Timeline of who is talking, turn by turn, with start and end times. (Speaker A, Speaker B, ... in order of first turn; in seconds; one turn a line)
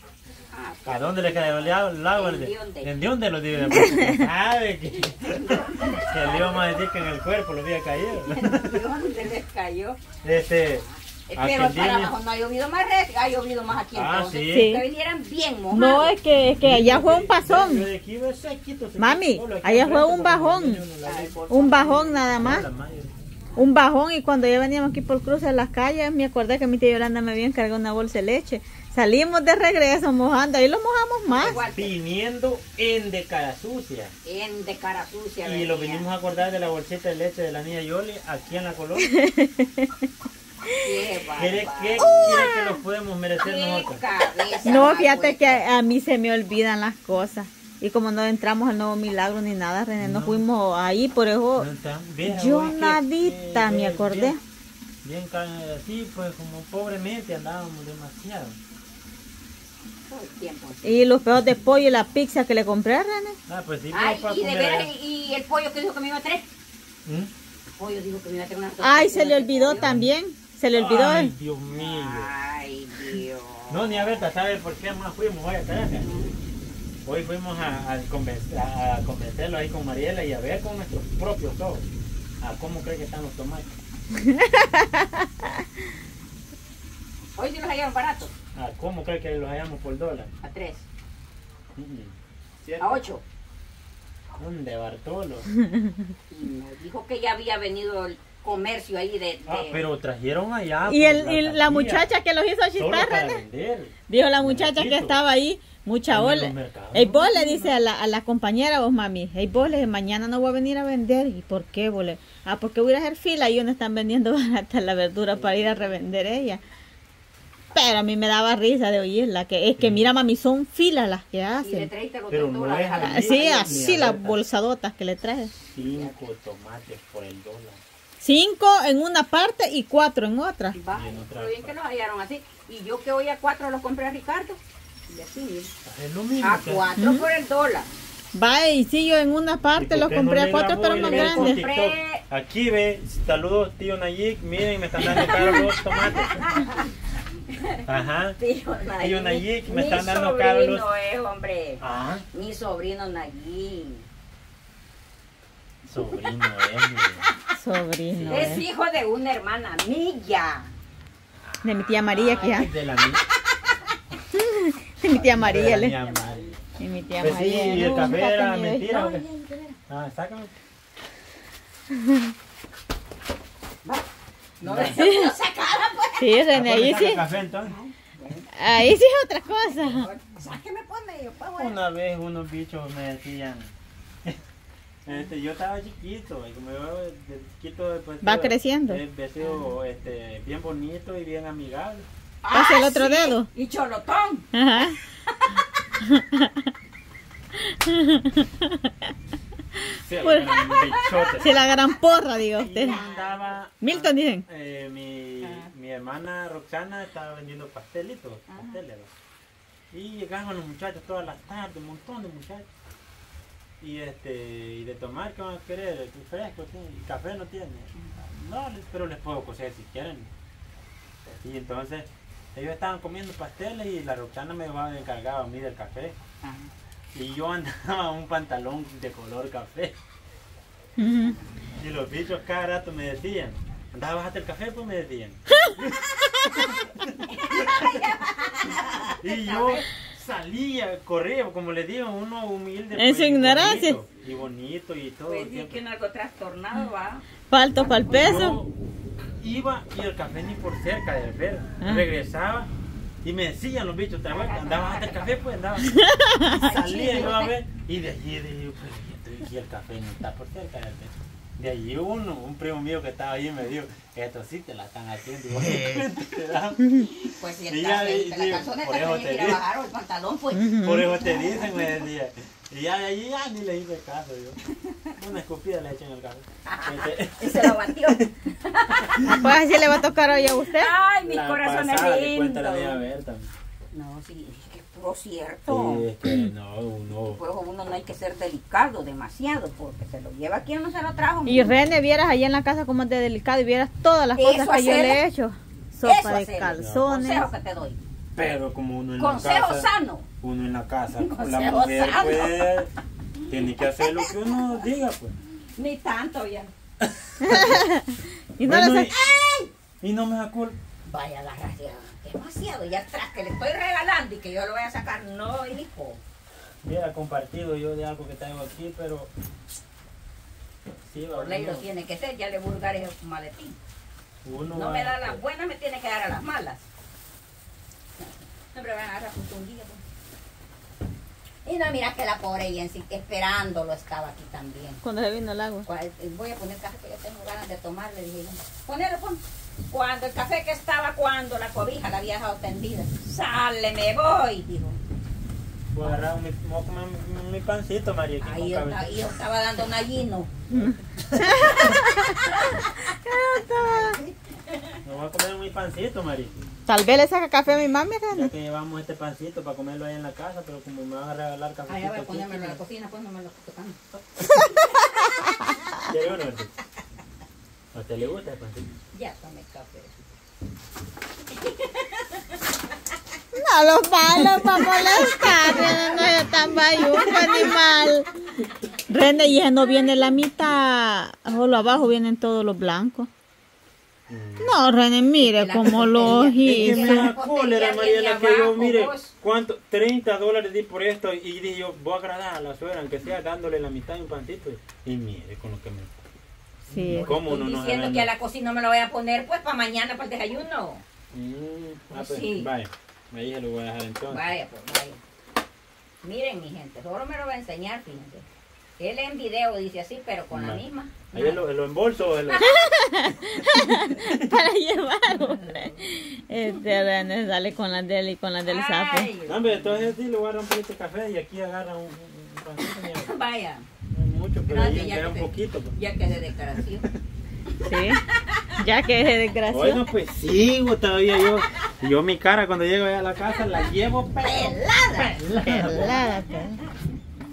Speaker A: 0.5-2.9
Speaker B: 0.8-8.8
Speaker A: 5.3-6.7
Speaker A: 8.3-10.0
Speaker B: 10.2-12.1
Speaker A: 10.7-16.1
Speaker B: 13.9-14.7
Speaker C: 14.5-14.8
Speaker C: 15.7-17.9
Speaker B: 16.6-21.4
Speaker C: 19.0-20.8
Speaker A: 21.0-22.6
Speaker C: 21.5-22.7
Speaker B: 22.3-23.1
Speaker C: 23.6-31.6
Speaker A: 31.3-31.9
Speaker B: 31.4-34.1
Speaker A: 34.2-36.1
Speaker B: 35.4-39.1
Speaker C: 39.0-39.9
Speaker A: 40.8-42.2
Speaker B: 41.4-44.0
Speaker C: 42.0-42.8
Speaker A: 43.4-45.6
Speaker C: 44.6-51.7
Speaker B: 50.0-50.5
Speaker B: 51.6-54.4
Speaker C: 52.2-54.4
Speaker B: 55.0-58.6
Speaker A: 60.1-61.0
Speaker C: 60.8-63.4
Speaker B: 63.5-64.9
Speaker A: 63.9-66.5
Speaker B: 67.0-67.3
Speaker A: 67.8-69.9
Speaker C: 68.8-71.3
Speaker B: 69.8-70.1
Speaker B: 70.7-72.3
Speaker A: 71.7-74.3
Speaker B: 73.7-76.1
Speaker A: 76.0-76.4
Speaker B: 77.0-81.9
Speaker B: 82.4-83.7
Speaker C: 84.6-85.0
Speaker A: 87.4-88.3
Speaker B: 88.5-90.3
Speaker A: 90.4-90.8
Speaker B: 91.8-93.0
Speaker A: 92.8-93.2
Speaker B: 94.3-95.5
Speaker C: 95.6-95.9
Speaker A: 96.3-99.9
Speaker B: 99.5-102.1
Speaker C: 100.8-103.4
Speaker B: 102.8-105.2
Speaker C: 104.1-116.6
Speaker B: 106.1-107.4
Speaker A: 107.3-107.7
Speaker C: 117.7-121.9
Speaker B: 119.8-120.0
Speaker A: 121.6-123.8
Speaker B: 122.3-124.4
Speaker C: 123.0-125.5
Speaker B: 125.7-127.8
Speaker A: 125.8-126.1
Speaker C: 128.2-130.8
Speaker A: 130.7-135.7
Speaker B: 130.9-131.8
Speaker B: 135.8-136.9
Speaker A: 136.4-137.9
Speaker C: 137.0-137.3
Speaker C: 138.3-141.7
Speaker B: 139.7-146.6
Speaker A: 140.6-142.2
Speaker A: 145.0-146.9
Speaker A: 147.5-147.8
Speaker B: 147.8-148.4
Speaker A: 148.3-151.8
Speaker B: 149.0-150.9
Speaker B: 151.8-152.2
Speaker A: 152.3-154.1
Speaker B: 155.8-157.3
Speaker C: 157.5-158.6
Speaker B: 158.1-158.6
Speaker A: 158.3-160.7
Speaker C: 161.6-162.7
Speaker B: 162.0-163.2
Speaker C: 164.3-166.0
Speaker B: 165.1-166.6
Speaker A: 165.7-166.5
Speaker C: 166.8-169.0
Speaker B: 167.2-169.2
Speaker A: 168.9-169.8
Speaker B: 169.9-170.5
Speaker B: 174.6-175.0
Speaker A: 174.6-176.4
Speaker C: 174.9-175.3
Speaker C: 176.2-177.2
Speaker B: 176.5-177.8
Speaker A: 177.5-178.5
Speaker C: 178.6-180.1
Speaker A: 179.7-181.8
Speaker B: 181.6-183.7
Speaker B: 185.0-192.1
Speaker C: 188.2-189.0
Speaker A: 189.4-189.8
Speaker A: 192.4-195.5
Speaker C: 192.5-193.5
Speaker C: 194.5-195.0
Speaker C: 196.1-196.5
Speaker C: 197.6-198.9
Speaker C: 199.8-200.7
Speaker B: 199.9-201.5
Speaker A: 200.3-201.9
Speaker C: 201.4-203.0
Speaker A: 202.6-203.6
Speaker B: 202.6-209.1
Speaker C: 203.8-204.4
Speaker A: 205.4-205.7
Speaker A: 208.5-208.8
Speaker B: 209.9-212.7
Speaker B: 213.8-220.3
Speaker B: 221.2-226.2
Speaker A: 226.4-226.7
Speaker B: 227.1-230.0
Speaker C: 231.0-231.3
Speaker B: 231.8-235.8
Speaker B: 236.5-238.1
Speaker A: 236.5-239.9
Speaker B: 239.2-245.8
Speaker C: 242.9-244.0
Speaker A: 245.3-247.2
Speaker C: 247.5-248.6
Speaker A: 247.8-248.1
Speaker B: 248.0-248.7
Speaker B: 249.4-252.7
Speaker C: 251.8-252.1
Speaker B: 253.2-269.6
Speaker A: 254.3-255.3
Speaker C: 255.9-256.6
Speaker A: 256.5-257.5
Speaker A: 267.0-272.0
Speaker C: 270.5-271.1
Speaker B: 270.8-274.6
Speaker B: 275.1-278.3
Speaker A: 276.6-279.6
Speaker B: 279.1-279.4
Speaker C: 279.2-280.9
Speaker A: 280.4-283.0
Speaker B: 281.2-283.5
Speaker A: 283.9-286.1
Speaker B: 285.7-287.4
Speaker C: 286.2-286.5
Speaker A: 287.3-291.7
Speaker C: 291.4-297.5
Speaker A: 294.4-295.2
Speaker A: 296.0-298.0
Speaker B: 296.7-297.0
Speaker B: 298.3-299.9
Speaker A: 299.2-300.3
Speaker B: 300.4-302.9
Speaker A: 301.1-302.7
Speaker A: 303.4-304.8
Speaker B: 303.5-305.3
Speaker A: 305.8-306.7
Speaker B: 307.0-307.8
Speaker C: 307.4-309.1
Speaker B: 308.6-309.1
Speaker A: 309.0-309.7
Speaker B: 310.0-310.8
Speaker A: 311.1-316.2
Speaker B: 316.8-319.3
Speaker B: 321.1-321.9
Speaker A: 321.3-323.8
Speaker B: 324.4-325.4
Speaker A: 324.7-326.8
Speaker A: 328.2-330.0
Speaker A: 331.6-335.0
Speaker C: 335.0-335.9
Speaker A: 335.9-345.0
Speaker B: 345.9-349.3
Speaker A: 346.0-346.2
Speaker A: 348.4-350.6
Speaker B: 350.7-352.0
Speaker C: 351.4-352.4
Speaker A: 351.7-354.9
Speaker C: 353.3-354.2
Speaker B: 355.0-356.6
Speaker C: 356.9-358.5
Speaker B: 358.3-362.8
Speaker A: 361.9-364.0
Speaker C: 364.4-364.7
Speaker B: 366.0-366.7
Speaker B: 367.9-368.9
Speaker A: 369.1-370.1
Speaker A: 371.5-372.4
Speaker C: 373.5-378.3
Speaker A: 374.7-377.8
Speaker C: 379.1-383.3
Speaker B: 384.3-384.8
Speaker C: 384.6-387.3
Speaker A: 385.4-389.3
Speaker B: 385.9-396.1
Speaker C: 396.9-397.4
Speaker A: 396.9-401.0
Speaker B: 397.1-398.3
Speaker B: 401.3-404.5
Speaker A: 402.1-402.7
Speaker A: 404.3-405.2
Speaker A: 406.2-408.4
Speaker A: 409.0-411.6
Speaker B: 410.5-412.8
Speaker C: 412.7-419.3
Speaker B: 413.5-414.6
Speaker A: 415.3-415.9
Speaker A: 418.6-420.1
Speaker B: 419.4-423.4
Speaker A: 422.8-423.9
Speaker B: 424.1-425.9
Speaker A: 424.6-427.1
Speaker B: 426.8-427.2
Speaker C: 427.8-428.2
Speaker A: 428.3-428.6
Speaker C: 428.8-430.0
Speaker B: 429.7-436.3
Speaker A: 433.4-435.4
Speaker C: 435.6-436.8